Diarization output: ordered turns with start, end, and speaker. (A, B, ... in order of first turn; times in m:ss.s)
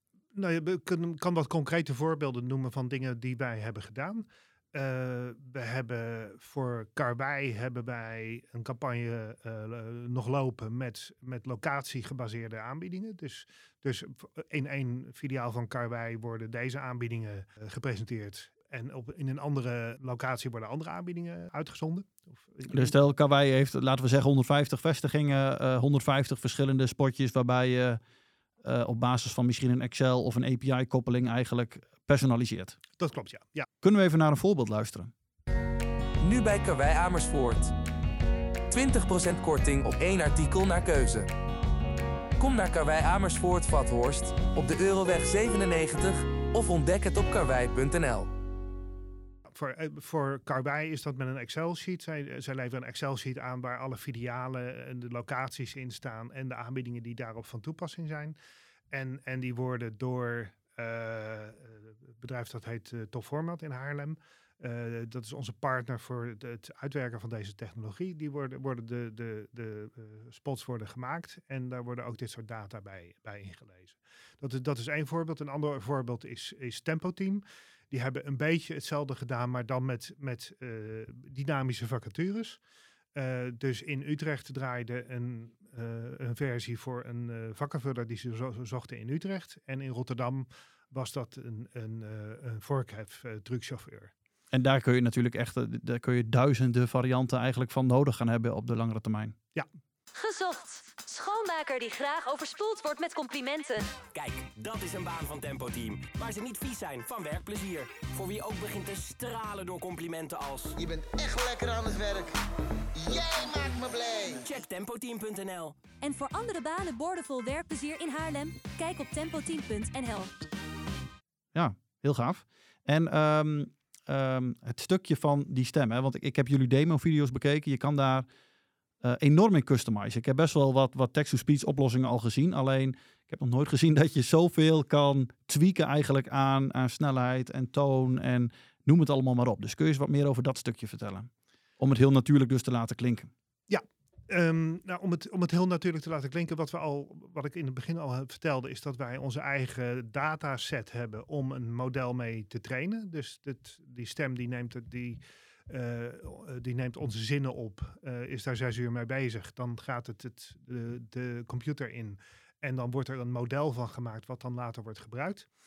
0:00.3-0:22.9 A
0:22.7-0:28.0 B
0:28.6-0:32.8 B
0:33.0-0:33.7 A
0:33.8-0:35.1 B
0:36.2-0:37.7 C
0:38.7-0:41.3 C
0:42.4-0:48.3 C
0:49.5-0:58.3 A
0:58.9-1:22.6 A
1:23.1-1:34.1 A
1:34.5-1:39.4 B
1:40.2-1:43.9 D
1:44.1-1:50.8 E
1:50.8-1:52.3 F
1:53.0-1:54.4 F
1:54.3-1:55.8 E
1:56.0-2:00.3 D
2:01.5-2:08.2 B
2:09.0-2:23.3 B
2:23.7-2:45.5 A